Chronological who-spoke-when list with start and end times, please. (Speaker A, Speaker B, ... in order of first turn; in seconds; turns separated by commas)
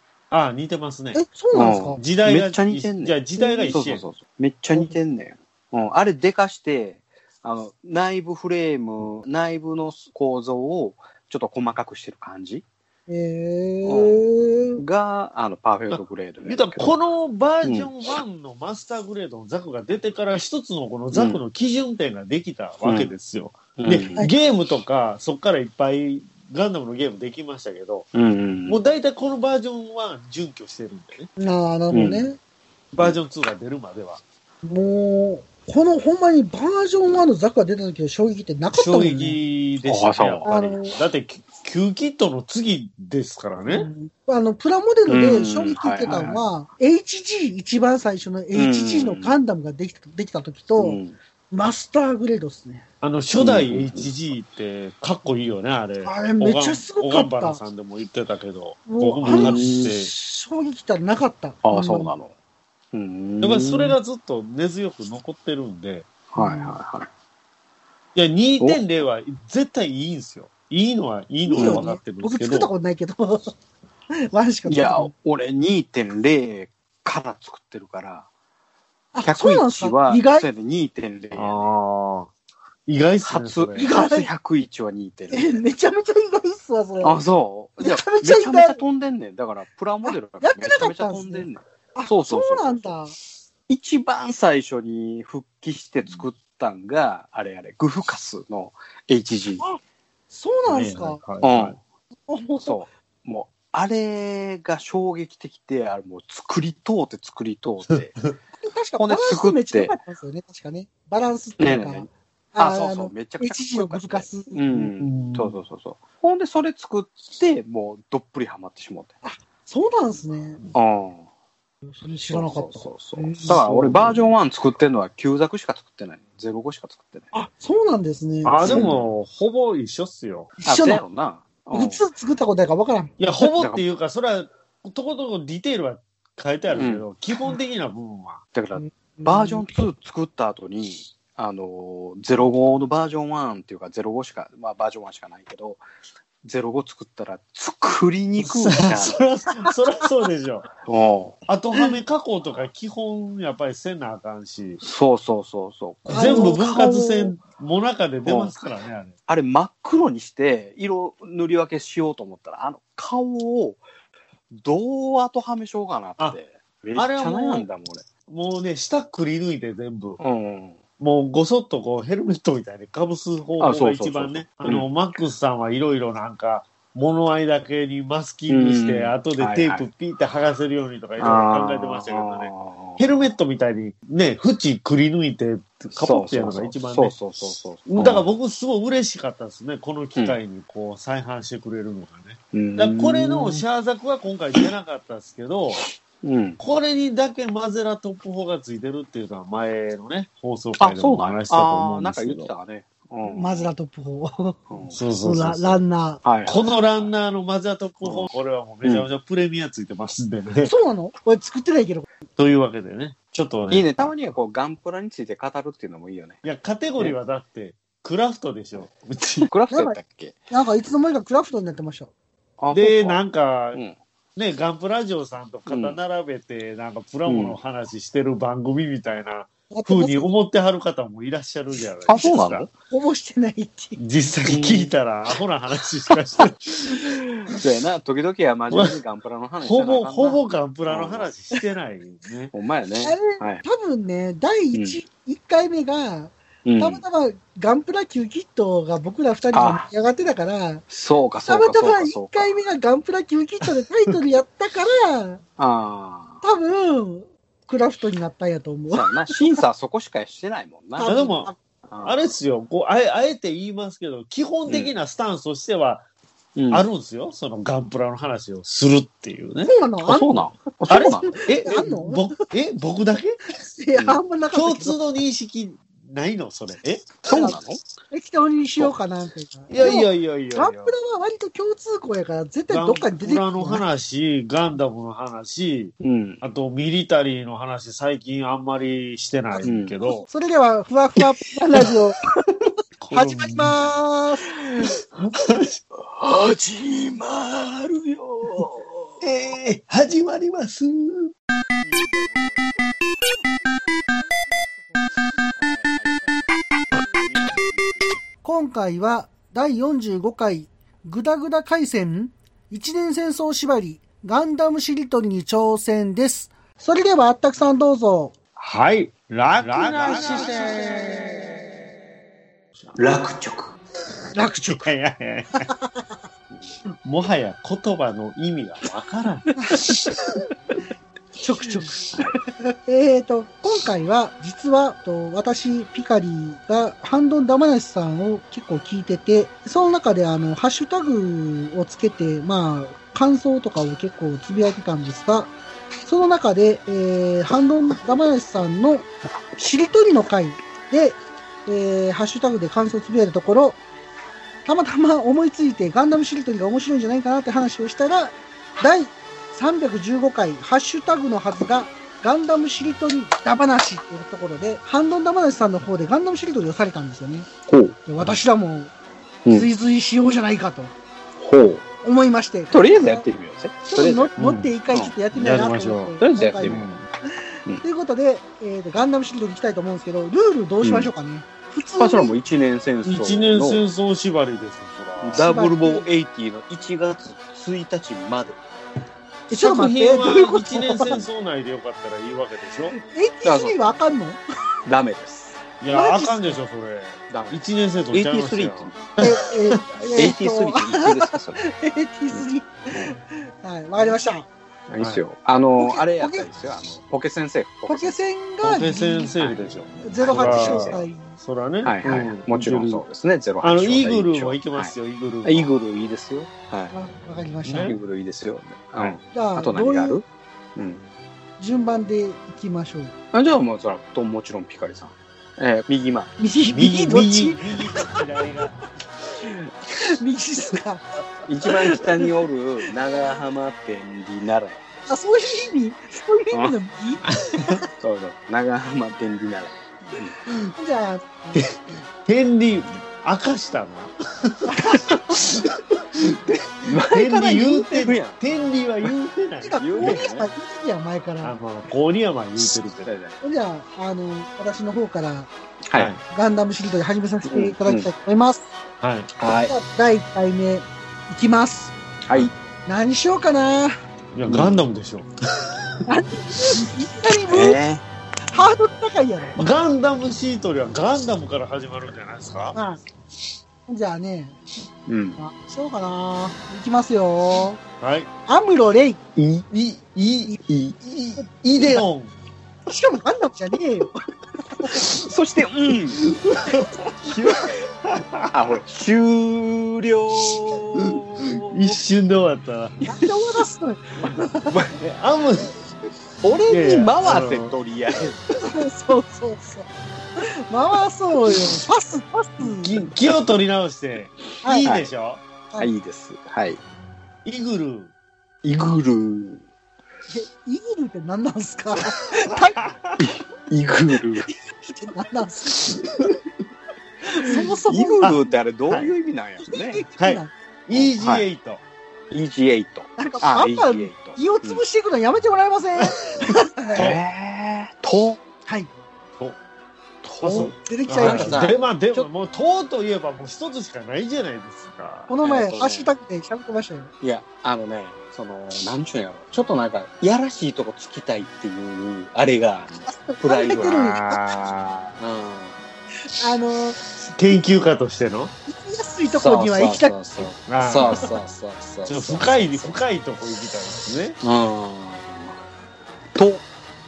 Speaker A: 0.3-4.0, Speaker B: 1.1-2.0, Speaker C: 1.5-12.6, Speaker B: 3.4-3.7, Speaker B: 13.1-14.8, Speaker C: 13.8-14.2, Speaker C: 14.8-16.9, Speaker A: 15.9-28.1, Speaker C: 17.6-17.9, Speaker C: 21.1-21.4, Speaker C: 22.8-23.1, Speaker C: 23.8-24.3, Speaker C: 28.1-28.8, Speaker A: 28.7-31.3, Speaker B: 31.4-32.4, Speaker C: 31.9-32.3, Speaker A: 32.9-34.2, Speaker B: 34.6-39.4, Speaker A: 38.7-43.9, Speaker C: 39.8-40.5, Speaker B: 40.5-41.0, Speaker B: 43.7-51.0, Speaker C: 45.1-46.4, Speaker C: 48.5-49.3, Speaker C: 50.8-51.1, Speaker B: 51.5-52.8, Speaker A: 53.0-60.1, Speaker C: 53.4-54.1, Speaker B: 56.0-57.6, Speaker B: 58.9-62.1, Speaker C: 59.2-59.9, Speaker C: 61.6-62.3, Speaker C: 62.9-64.0, Speaker A: 63.4-66.1, Speaker C: 66.3-67.1, Speaker B: 66.4-66.8, Speaker A: 68.1-72.7, Speaker B: 71.4-73.5, Speaker C: 71.6-71.8, Speaker B: 74.2-75.1, Speaker C: 74.6-78.3, Speaker B: 79.1-80.5, Speaker C: 79.2-81.7, Speaker A: 81.3-82.3, Speaker A: 82.8-83.9, Speaker C: 83.2-85.6, Speaker B: 83.8-84.3, Speaker B: 85.3-87.2, Speaker C: 87.0-92.9, Speaker B: 87.8-88.8, Speaker B: 90.0-93.1, Speaker C: 93.7-99.6, Speaker B: 100.3-101.2, Speaker A: 100.7-101.8, Speaker C: 101.4-101.8, Speaker B: 102.3-102.8, Speaker C: 102.6-108.2, Speaker A: 108.0-108.3, Speaker B: 108.6-114.5, Speaker C: 109.0-110.0, Speaker C: 111.6-119.1, Speaker A: 114.7-115.5, Speaker B: 119.2-120.6, Speaker C: 120.7-121.3, Speaker B: 121.8-123.6, Speaker C: 122.3-127.3, Speaker A: 123.5-124.2, Speaker B: 127.3-128.9, Speaker A: 128.4-130.5, Speaker C: 128.6-129.0, Speaker B: 130.6-131.0, Speaker C: 130.7-132.0, Speaker B: 131.7-133.1, Speaker A: 133.2-138.4, Speaker C: 133.4-133.8, Speaker C: 136.7-137.1, Speaker C: 138.5-145.8, Speaker B: 138.7-139.6, Speaker C: 146.4-149.2, Speaker A: 148.4-150.7, Speaker C: 150.8-151.4, Speaker A: 151.5-154.8, Speaker C: 154.8-156.7, Speaker A: 156.1-159.1, Speaker B: 156.1-157.3, Speaker C: 158.2-158.5, Speaker C: 159.3-163.8, Speaker C: 164.5-168.1, Speaker A: 166.9-167.7, Speaker A: 168.3-170.2, Speaker C: 170.2-170.8, Speaker A: 171.0-187.2, Speaker C: 173.6-174.9, Speaker C: 178.5-179.9, Speaker C: 181.2-183.1, Speaker C: 185.9-188.2, Speaker A: 187.9-195.8, Speaker C: 192.5-193.6, Speaker C: 196.2-196.6, Speaker A: 196.6-202.5, Speaker C: 200.8-203.7, Speaker B: 203.3-204.6, Speaker C: 204.7-205.0, Speaker A: 204.9-205.8, Speaker B: 205.2-206.2, Speaker C: 206.2-206.7, Speaker A: 206.4-210.7, Speaker C: 208.0-208.3, Speaker B: 210.6-212.1, Speaker A: 212.4-214.1, Speaker C: 213.7-216.4, Speaker A: 216.4-219.5, Speaker C: 219.4-220.4, Speaker B: 219.7-220.0, Speaker B: 220.5-222.1, Speaker C: 222.6-223.2, Speaker A: 222.7-223.8, Speaker A: 224.4-232.7, Speaker C: 225.7-226.0, Speaker C: 227.2-227.6, Speaker B: 229.7-230.3, Speaker C: 232.1-232.7, Speaker B: 232.9-234.0, Speaker A: 234.0-237.1, Speaker C: 234.5-234.9, Speaker C: 236.1-241.3, Speaker A: 238.7-238.9, Speaker A: 239.6-242.5, Speaker C: 242.5-243.6, Speaker B: 243.0-250.8, Speaker C: 244.7-245.0, Speaker C: 246.6-247.0, Speaker C: 249.5-249.9, Speaker C: 250.9-252.5, Speaker B: 251.5-255.4, Speaker C: 255.6-256.4, Speaker B: 256.4-259.6, Speaker C: 258.9-261.1, Speaker B: 261.0-261.6, Speaker A: 261.1-261.5, Speaker C: 261.9-262.2, Speaker A: 262.0-266.1, Speaker C: 264.7-264.9, Speaker C: 266.6-266.9, Speaker A: 266.7-269.7, Speaker B: 269.6-270.4, Speaker C: 270.0-271.4, Speaker A: 270.9-273.4, Speaker B: 271.0-272.4, Speaker B: 273.8-275.0, Speaker C: 273.9-274.2, Speaker A: 274.5-277.2, Speaker C: 277.2-277.8, Speaker B: 277.3-277.6, Speaker B: 278.1-283.8, Speaker A: 279.7-280.9, Speaker A: 282.7-290.3, Speaker C: 286.0-286.4, Speaker C: 289.6-289.9, Speaker B: 290.3-292.2, Speaker A: 293.0-293.8, Speaker B: 293.1-294.5, Speaker A: 294.8-295.8, Speaker C: 296.0-299.2, Speaker A: 299.2-301.3, Speaker C: 301.8-302.9, Speaker C: 305.6-308.1, Speaker B: 308.4-318.3, Speaker A: 318.6-321.3, Speaker C: 319.7-320.5, Speaker B: 319.9-321.3, Speaker C: 322.9-323.7, Speaker B: 324.3-324.9, Speaker A: 324.7-325.6, Speaker B: 325.6-326.0, Speaker A: 327.0-329.6, Speaker B: 331.4-332.0, Speaker B: 332.9-345.5, Speaker B: 346.1-353.8, Speaker B: 354.6-367.5, Speaker C: 367.7-368.0, Speaker B: 368.1-368.9, Speaker B: 369.5-370.9, Speaker C: 371.4-371.9, Speaker B: 372.0-373.2, Speaker C: 372.7-374.3, Speaker B: 373.9-376.9, Speaker A: 374.4-374.7, Speaker A: 375.3-377.0, Speaker C: 376.2-376.9, Speaker B: 377.8-382.3, Speaker C: 380.8-381.1, Speaker C: 382.0-383.8, Speaker A: 383.0-385.5, Speaker C: 385.2-388.6, Speaker B: 385.4-386.1, Speaker B: 389.5-391.2, Speaker A: 389.5-392.9, Speaker B: 393.0-394.4, Speaker C: 393.4-393.8, Speaker C: 394.9-395.6, Speaker A: 395.8-399.8, Speaker B: 395.9-396.5, Speaker C: 397.3-399.2, Speaker B: 399.2-404.5, Speaker C: 399.9-401.6, Speaker C: 402.3-403.1, Speaker C: 404.9-408.2, Speaker A: 405.0-405.2, Speaker B: 405.8-406.5, Speaker B: 407.9-409.5, Speaker A: 408.6-413.0, Speaker B: 410.0-411.4, Speaker C: 410.2-411.0, Speaker C: 411.8-416.9, Speaker A: 413.6-415.7, Speaker B: 416.9-417.9, Speaker A: 417.6-418.0, Speaker C: 417.8-420.2, Speaker B: 419.3-420.2, Speaker C: 420.8-421.0, Speaker B: 421.6-423.1, Speaker C: 423.3-426.3, Speaker B: 426.4-428.4, Speaker A: 426.7-428.8, Speaker B: 430.0-431.0, Speaker C: 431.4-434.8, Speaker B: 431.7-432.0, Speaker B: 435.1-437.8, Speaker C: 437.9-440.4, Speaker B: 440.8-441.6, Speaker A: 442.2-444.7, Speaker B: 444.6-445.4, Speaker A: 445.6-446.3, Speaker C: 446.7-448.4, Speaker A: 446.9-450.2, Speaker B: 449.6-451.6, Speaker C: 449.8-450.5, Speaker A: 451.4-453.1, Speaker C: 452.6-453.4, Speaker B: 453.4-455.5, Speaker C: 455.9-456.1, Speaker A: 455.9-456.2, Speaker B: 456.3-458.7, Speaker C: 457.4-458.1, Speaker A: 459.0-459.3, Speaker C: 459.4-459.7, Speaker B: 459.7-461.9, Speaker C: 462.3-462.5, Speaker B: 462.9-464.0, Speaker A: 464.3-465.8, Speaker C: 464.5-464.8, Speaker B: 466.1-467.8, Speaker C: 467.5-468.0, Speaker B: 468.5-469.6, Speaker A: 469.6-472.8, Speaker B: 472.7-473.0, Speaker B: 473.9-474.6, Speaker C: 475.1-475.4, Speaker B: 475.4-477.8, Speaker A: 478.0-478.3, Speaker B: 478.5-479.2, Speaker C: 479.4-479.6, Speaker A: 479.7-482.3, Speaker C: 480.6-480.9, Speaker B: 482.9-484.1, Speaker C: 484.9-486.2, Speaker A: 486.3-487.4, Speaker C: 487.2-487.8, Speaker A: 488.0-488.5, Speaker C: 488.5-492.0, Speaker A: 491.6-493.0, Speaker B: 493.0-494.8, Speaker C: 494.7-494.9, Speaker A: 495.0-495.7, Speaker C: 496.4-498.5, Speaker A: 496.7-498.3, Speaker B: 498.6-503.0, Speaker A: 502.6-505.4, Speaker B: 504.6-504.9, Speaker C: 504.8-505.1, Speaker C: 505.8-506.8, Speaker A: 507.4-508.1, Speaker C: 508.6-509.6, Speaker B: 510.3-512.8, Speaker A: 512.8-513.2, Speaker C: 513.2-514.5, Speaker B: 514.8-516.0, Speaker B: 517.2-518.5, Speaker C: 517.5-520.0, Speaker B: 519.6-520.5, Speaker A: 520.2-521.8, Speaker C: 520.9-521.5, Speaker C: 522.3-524.8, Speaker B: 523.2-527.0, Speaker A: 526.0-527.2, Speaker C: 526.9-528.4, Speaker C: 530.2-532.3, Speaker A: 530.4-535.3, Speaker B: 530.5-531.7, Speaker B: 535.3-537.1, Speaker C: 535.4-536.1, Speaker C: 537.2-545.8, Speaker B: 543.1-544.4, Speaker A: 543.8-544.8, Speaker B: 546.3-547.0, Speaker A: 547.3-548.5, Speaker B: 548.7-550.1, Speaker C: 549.4-553.0, Speaker A: 550.7-551.3, Speaker A: 552.0-554.4, Speaker C: 554.4-555.6, Speaker C: 556.3-556.6